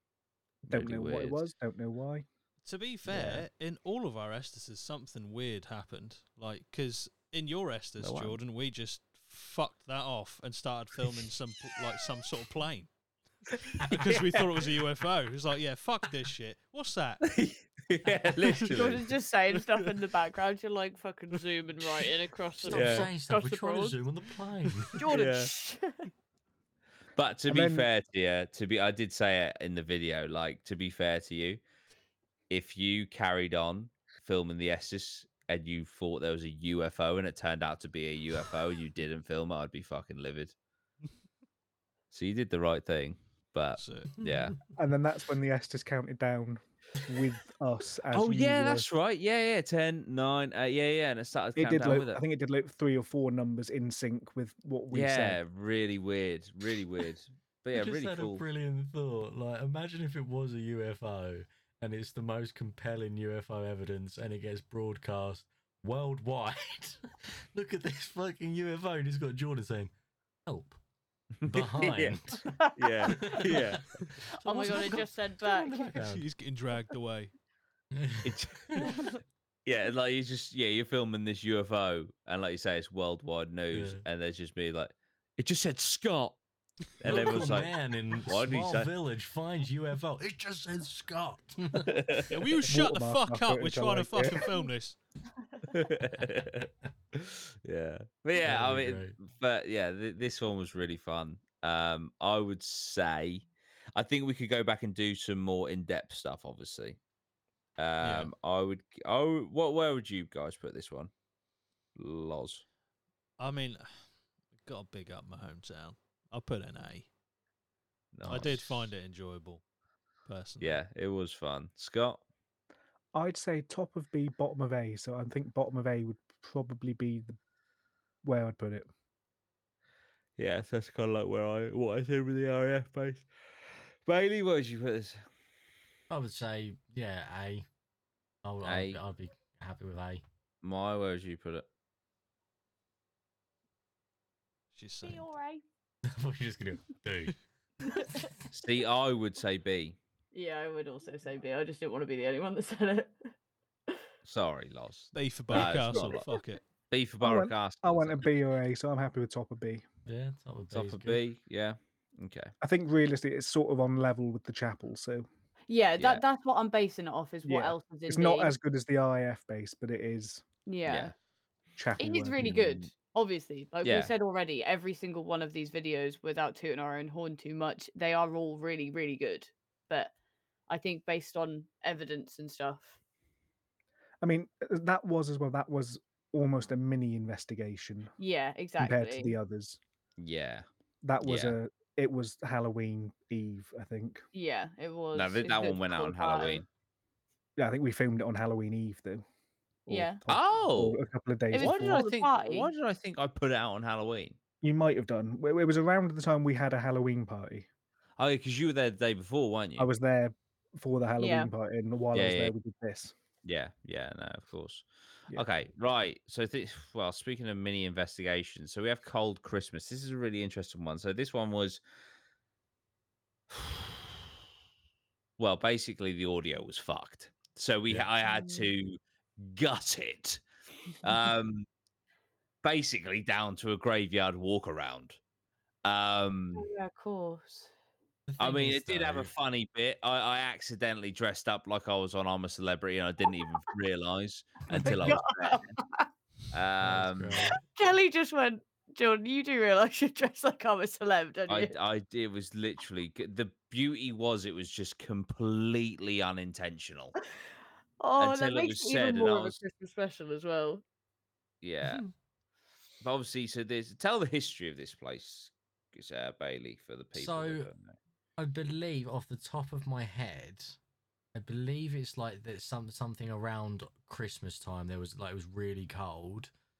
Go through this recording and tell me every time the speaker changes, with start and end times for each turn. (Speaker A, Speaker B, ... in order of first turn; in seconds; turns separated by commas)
Speaker A: 0.6-2.2, Speaker B: 0.7-1.4, Speaker C: 2.6-12.9, Speaker B: 3.1-3.5, Speaker B: 8.0-8.3, Speaker C: 13.5-17.3, Speaker B: 13.9-14.4, Speaker B: 17.3-19.0, Speaker C: 18.4-18.7, Speaker D: 18.7-24.0, Speaker C: 19.5-19.9, Speaker E: 22.6-25.0, Speaker B: 22.7-23.1, Speaker D: 25.0-26.1, Speaker B: 25.1-25.5, Speaker B: 27.1-31.6, Speaker A: 27.5-27.9, Speaker B: 32.5-40.5, Speaker B: 42.1-44.6, Speaker C: 43.8-44.1, Speaker E: 44.2-44.5, Speaker A: 44.7-48.9, Speaker B: 48.1-52.2, Speaker A: 51.5-55.4, Speaker B: 54.9-58.4, Speaker E: 57.7-69.9, Speaker E: 70.5-70.8, Speaker B: 71.4-74.1, Speaker E: 71.4-72.5, Speaker D: 72.6-73.5, Speaker E: 73.0-76.2, Speaker D: 74.4-75.9, Speaker C: 75.9-77.3, Speaker E: 77.9-79.0, Speaker B: 78.2-79.1, Speaker D: 78.8-79.1, Speaker B: 79.7-86.4, Speaker E: 83.7-84.0, Speaker B: 87.0-88.9, Speaker E: 87.0-92.0, Speaker C: 87.1-87.5, Speaker B: 91.8-92.4, Speaker C: 92.3-95.0, Speaker A: 92.7-94.5, Speaker B: 95.7-107.0, Speaker E: 98.4-99.2, Speaker B: 107.8-111.1, Speaker C: 108.0-108.3, Speaker B: 112.0-112.6, Speaker C: 113.4-114.0, Speaker C: 114.6-117.1, Speaker B: 118.1-118.8, Speaker C: 118.3-119.6, Speaker C: 120.2-120.8, Speaker B: 120.6-122.2, Speaker A: 123.1-127.3, Speaker A: 128.2-128.9, Speaker B: 130.4-133.3, Speaker B: 134.0-135.2, Speaker E: 136.1-137.7, Speaker E: 138.4-140.2, Speaker B: 138.6-139.0, Speaker B: 140.6-141.7, Speaker C: 144.7-145.2, Speaker D: 145.0-145.6, Speaker E: 146.1-147.4, Speaker D: 147.9-148.3, Speaker B: 148.5-150.0, Speaker D: 150.3-153.2, Speaker B: 154.2-156.3, Speaker C: 155.1-156.6, Speaker B: 156.9-158.3, Speaker A: 157.2-159.8, Speaker E: 160.1-161.2, Speaker B: 160.7-162.5, Speaker A: 162.6-165.3, Speaker D: 165.7-168.6, Speaker B: 166.0-166.2, Speaker A: 167.4-170.4, Speaker D: 170.7-171.1, Speaker B: 170.8-171.1, Speaker A: 171.8-172.8, Speaker D: 172.0-180.1, Speaker B: 173.8-174.1, Speaker D: 180.7-183.0, Speaker A: 184.2-188.1, Speaker D: 188.2-189.4, Speaker A: 188.8-189.8, Speaker B: 190.2-190.7, Speaker A: 191.0-194.2, Speaker B: 191.2-191.6, Speaker D: 194.3-196.6, Speaker B: 195.1-196.7, Speaker A: 197.6-199.2, Speaker A: 199.8-202.1, Speaker D: 199.9-200.2, Speaker B: 200.3-201.0, Speaker D: 201.5-202.7, Speaker B: 201.5-204.4, Speaker A: 204.6-207.7, Speaker B: 208.2-209.9, Speaker A: 209.8-213.1, Speaker D: 211.2-211.5, Speaker B: 212.1-212.5, Speaker B: 213.4-221.8, Speaker B: 223.5-224.0, Speaker B: 225.4-230.4, Speaker D: 228.2-228.7, Speaker B: 231.0-231.7, Speaker B: 232.6-235.2, Speaker B: 235.8-236.6, Speaker D: 236.5-237.7, Speaker E: 238.3-239.3, Speaker B: 238.4-245.7, Speaker E: 244.7-245.1, Speaker D: 244.8-246.1, Speaker B: 246.5-247.5, Speaker E: 246.8-247.6, Speaker D: 247.7-251.8, Speaker B: 251.5-257.1, Speaker D: 258.0-260.8, Speaker B: 258.2-259.6, Speaker B: 261.6-262.0, Speaker E: 261.8-262.1, Speaker B: 263.0-267.9, Speaker E: 267.1-267.7, Speaker E: 268.4-270.8, Speaker E: 271.3-276.5